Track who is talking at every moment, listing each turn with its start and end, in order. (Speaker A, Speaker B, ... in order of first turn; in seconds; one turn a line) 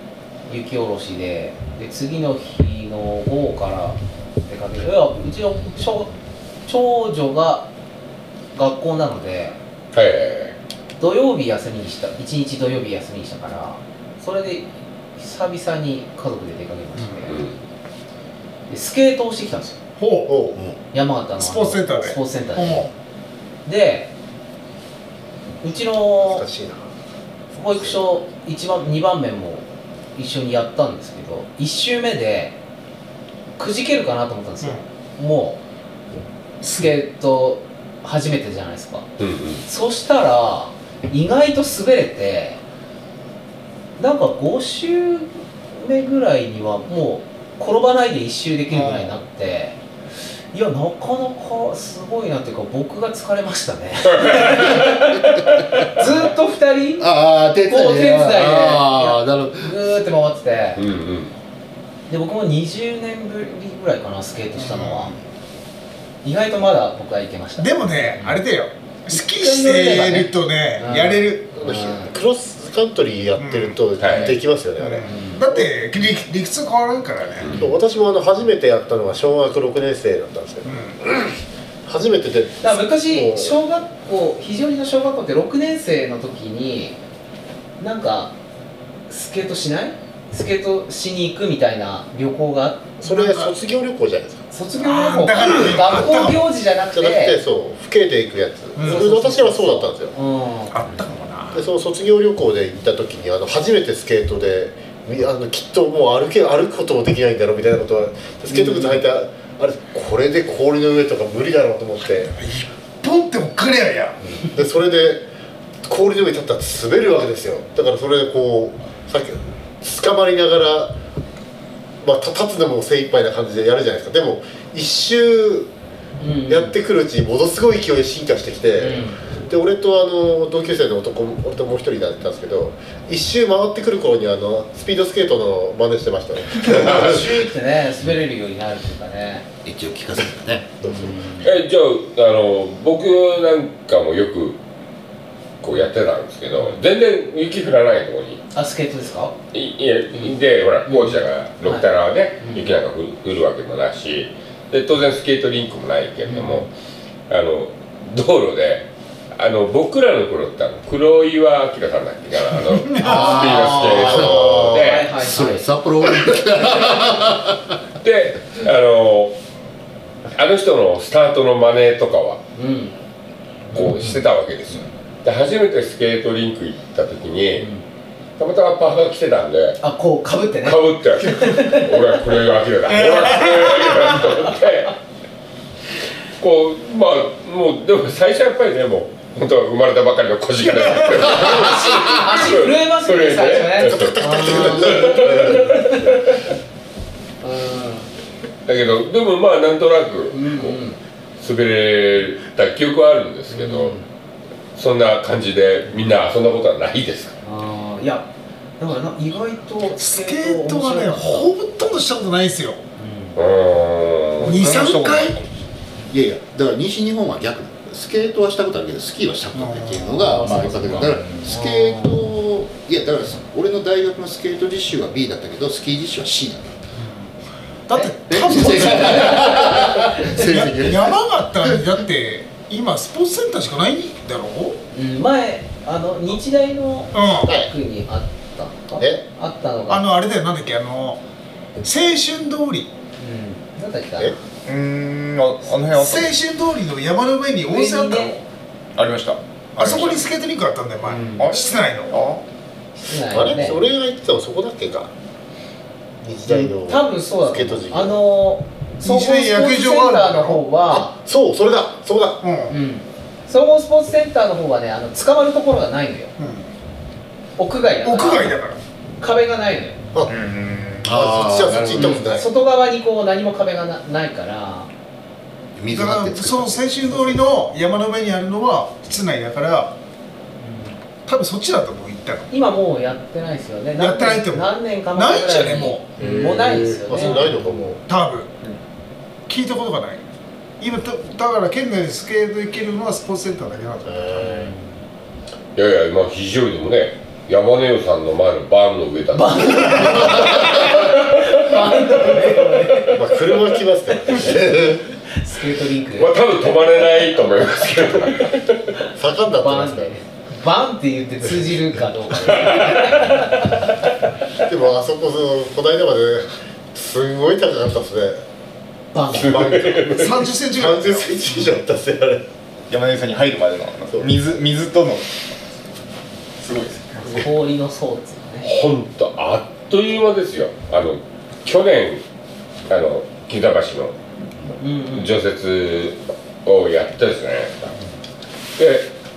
Speaker A: 0.5-6.1
Speaker A: 6.7-7.7
Speaker A: 8.5-9.6
Speaker B: 9.9-10.6
Speaker A: 11.0-17.4
Speaker C: 17.0-17.3
Speaker B: 17.3-17.6
Speaker A: 18.7-19.8
Speaker C: 20.0-20.3
Speaker D: 20.3-20.6
Speaker A: 20.9-22.9
Speaker C: 21.4-22.9
Speaker A: 23.6-24.1
Speaker A: 25.6-26.4
Speaker D: 26.2-26.9
Speaker A: 27.6-29.6
Speaker A: 30.2-32.6
Speaker A: 33.6-35.6
Speaker C: 36.6-36.9
Speaker A: 36.7-39.1
Speaker B: 39.2-39.6
Speaker A: 39.6-42.6
Speaker A: 44.0-49.8
Speaker A: 50.5-60.8
Speaker B: 54.2-55.1
Speaker E: 57.0-59.8
Speaker B: 60.8-61.3
Speaker A: 62.1-65.2
Speaker C: 64.5-65.1
Speaker A: 66.2-68.4
Speaker C: 67.6-71.5
Speaker A: 69.1-72.1
Speaker D: 71.5-75.7
Speaker C: 73.4-73.8
Speaker B: 74.0-74.4
Speaker C: 74.8-77.6
Speaker A: 75.0-75.4
Speaker B: 77.4-77.7
Speaker D: 77.5-81.3
Speaker C: 80.7-81.0
Speaker D: 81.9-83.6
Speaker A: 82.6-87.0
Speaker A: 87.8-88.3
Speaker A: 89.1-93.0
Speaker D: 93.0-94.4
Speaker C: 93.0-93.5
Speaker A: 94.5-97.4
Speaker C: 94.8-96.5
Speaker D: 96.9-100.1
Speaker C: 98.8-99.1
Speaker A: 98.8-101.0
Speaker C: 100.7-101.7
Speaker D: 101.5-112.3
Speaker A: 108.5-109.0
Speaker C: 112.3-114.4
Speaker D: 114.5-115.3
Speaker D: 115.8-121.0
Speaker D: 122.0-125.7
Speaker A: 126.2-126.7
Speaker D: 126.5-137.4
Speaker A: 128.8-129.2
Speaker A: 136.7-139.5
Speaker E: 139.6-141.0
Speaker D: 140.8-141.2
Speaker A: 140.9-141.5
Speaker B: 141.4-144.6
Speaker B: 145.6-148.4
Speaker A: 148.5-149.3
Speaker B: 149.5-156.7
Speaker A: 150.9-152.8
Speaker A: 156.3-156.7
Speaker B: 157.3-165.1
Speaker C: 162.9-163.3
Speaker A: 163.0-165.7
Speaker E: 163.1-164.6
Speaker D: 163.9-164.8
Speaker E: 165.1-167.8
Speaker B: 168.0-169.4
Speaker B: 170.3-172.4
Speaker A: 172.6-173.0
Speaker B: 173.7-177.7
Speaker B: 178.4-179.8
Speaker A: 179.8-182.1
Speaker B: 180.6-184.9
Speaker C: 183.0-184.0
Speaker B: 186.4-196.1
Speaker C: 190.7-192.0
Speaker A: 191.4-196.4
Speaker D: 193.8-195.7
Speaker A: 197.4-198.1
Speaker B: 198.7-200.8
Speaker A: 200.3-201.0
Speaker B: 201.4-204.0
Speaker A: 203.5-204.0
Speaker B: 204.8-207.3
Speaker A: 207.4-208.3
Speaker A: 208.8-211.5
Speaker C: 210.0-212.8
Speaker A: 213.0-213.4
Speaker B: 213.4-214.7
Speaker F: 214.4-215.5
Speaker C: 214.4-215.4
Speaker E: 216.1-226.8
Speaker C: 219.5-221.2
Speaker A: 220.4-220.8
Speaker A: 221.4-222.2
Speaker C: 227.0-227.3
Speaker C: 227.9-229.8
Speaker E: 228.3-231.8
Speaker A: 229.4-230.3
Speaker C: 230.3-234.8
Speaker A: 234.9-240.1
Speaker C: 237.1-237.5
Speaker D: 237.4-237.7
Speaker D: 239.0-239.2
Speaker C: 239.9-241.2
Speaker C: 241.8-242.9
Speaker A: 243.2-244.3
Speaker F: 244.7-246.4
Speaker C: 245.9-248.4
Speaker A: 247.7-248.4
Speaker F: 248.9-250.2
Speaker C: 249.8-252.2
Speaker A: 251.0-251.5
Speaker F: 251.3-252.4
Speaker A: 253.0-253.8
Speaker D: 253.3-255.1
Speaker D: 256.2-258.2
Speaker A: 256.5-261.1
Speaker C: 259.0-260.6
Speaker D: 260.9-262.4
Speaker C: 262.4-262.8
Speaker A: 262.7-266.3
Speaker C: 266.4-266.7
Speaker A: 267.6-268.5
Speaker C: 268.0-268.8
Speaker A: 269.2-270.0
Speaker F: 270.3-271.1
Speaker E: 271.0-272.1
Speaker D: 271.1-272.5
Speaker A: 271.9-274.9
Speaker E: 275.8-277.4
Speaker C: 275.9-279.9
Speaker A: 280.6-281.0
Speaker C: 281.3-282.5
Speaker A: 282.5-288.0
Speaker C: 284.0-286.1
Speaker E: 286.2-286.9
Speaker D: 286.9-288.0
Speaker C: 288.1-288.5
Speaker C: 289.5-290.2
Speaker C: 290.8-294.5
Speaker D: 294.0-294.7
Speaker A: 294.4-294.9
Speaker B: 295.8-301.5
Speaker A: 299.3-303.2
Speaker C: 299.8-300.2
Speaker C: 301.7-302.9
Speaker D: 303.0-305.0
Speaker A: 305.3-306.4
Speaker B: 306.2-308.8
Speaker D: 309.2-310.1
Speaker A: 309.5-313.8
Speaker B: 312.5-313.4
Speaker D: 314.6-318.4
Speaker A: 319.1-319.6
Speaker D: 319.3-322.4
Speaker B: 319.3-320.5
Speaker C: 320.2-321.3
Speaker F: 322.9-325.3
Speaker F: 326.6-327.4
Speaker A: 327.2-328.7
Speaker B: 328.6-332.2
Speaker B: 332.9-334.1
Speaker A: 334.8-335.3
Speaker B: 335.1-337.9
Speaker B: 338.8-339.1